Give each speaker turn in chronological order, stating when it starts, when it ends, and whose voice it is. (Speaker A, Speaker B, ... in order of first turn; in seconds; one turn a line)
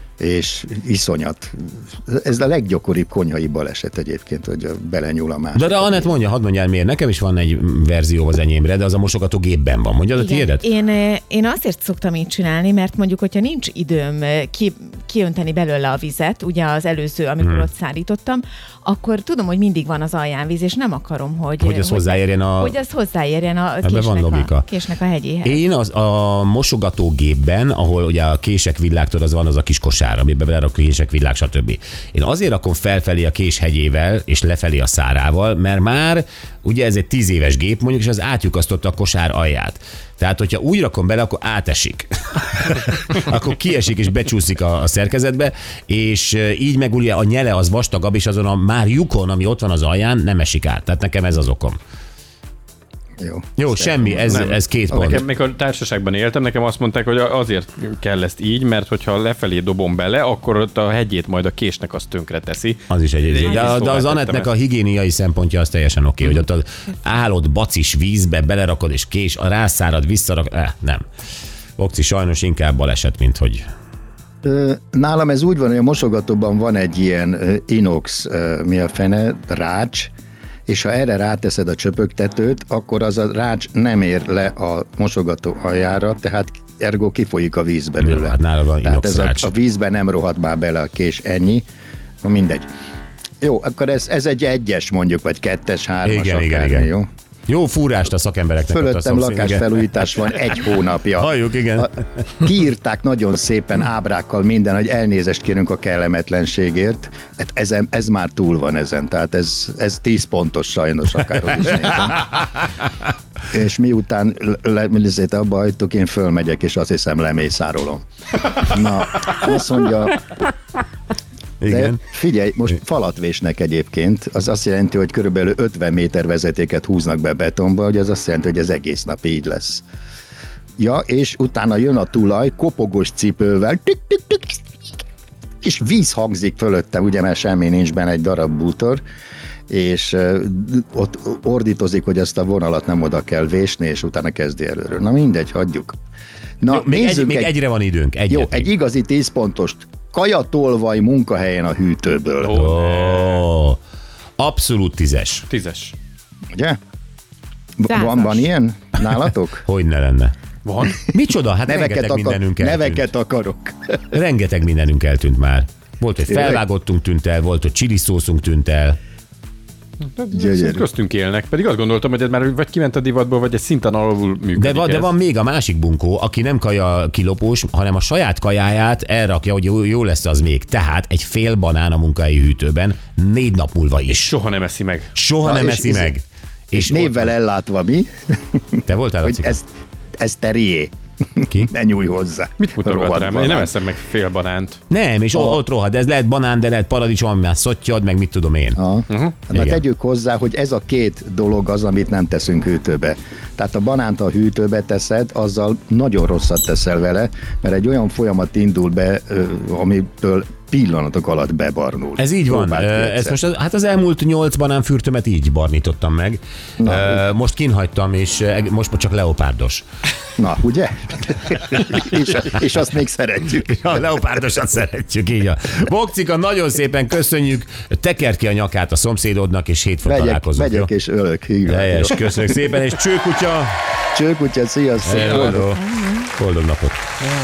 Speaker A: 0.2-6.2
Speaker B: 5.5-10.7
Speaker C: 10.2-25.6
Speaker B: 17.4-17.7
Speaker B: 21.6-22.8
Speaker B: 23.8-24.7
Speaker B: 25.4-51.8
Speaker A: 53.2-54.4
Speaker B: 53.6-55.2
Speaker D: 54.3-64.5
Speaker A: 54.9-55.2
Speaker B: 62.9-71.0
Speaker B: 71.8-73.7
Speaker A: 74.4-80.1
Speaker A: 80.7-91.7
Speaker B: 88.0-89.5
Speaker A: 92.2-92.7
Speaker A: 93.4-97.1
Speaker B: 96.0-96.9
Speaker B: 97.5-99.8
Speaker A: 98.7-112.4
Speaker B: 101.2-102.0
Speaker A: 113.5-118.0
Speaker A: 118.6-120.2
Speaker B: 121.6-122.0
Speaker A: 121.7-129.8
Speaker A: 130.8-134.6
Speaker A: 135.6-139.0
Speaker A: 139.7-145.9
Speaker A: 146.6-147.5
Speaker B: 146.7-148.7
Speaker A: 148.3-152.6
Speaker D: 152.4-153.4
Speaker B: 152.5-153.8
Speaker B: 154.4-155.4
Speaker D: 155.5-155.9
Speaker A: 157.8-159.7
Speaker C: 157.9-158.5
Speaker B: 159.7-160.3
Speaker D: 160.7-161.0
Speaker B: 161.1-163.1
Speaker A: 161.7-163.9
Speaker B: 164.1-169.0
Speaker A: 166.3-166.6
Speaker D: 170.1-175.1
Speaker A: 170.3-170.8
Speaker B: 174.6-184.3
Speaker D: 184.1-185.1
Speaker B: 185.2-187.3
Speaker A: 185.4-186.1
Speaker A: 186.8-189.7
Speaker B: 188.9-189.6
Speaker A: 190.2-193.7
Speaker D: 192.6-194.8
Speaker B: 194.9-198.8
Speaker A: 195.3-195.6
Speaker A: 198.8-213.4
Speaker D: 199.1-199.4
Speaker B: 199.5-199.8
Speaker B: 212.2-219.8
Speaker A: 216.8-217.2
Speaker A: 220.4-224.0
Speaker B: 223.6-230.9
Speaker A: 230.1-232.2
Speaker B: 231.7-233.7
Speaker A: 234.1-235.6
Speaker B: 235.0-235.8
Speaker B: 236.3-237.0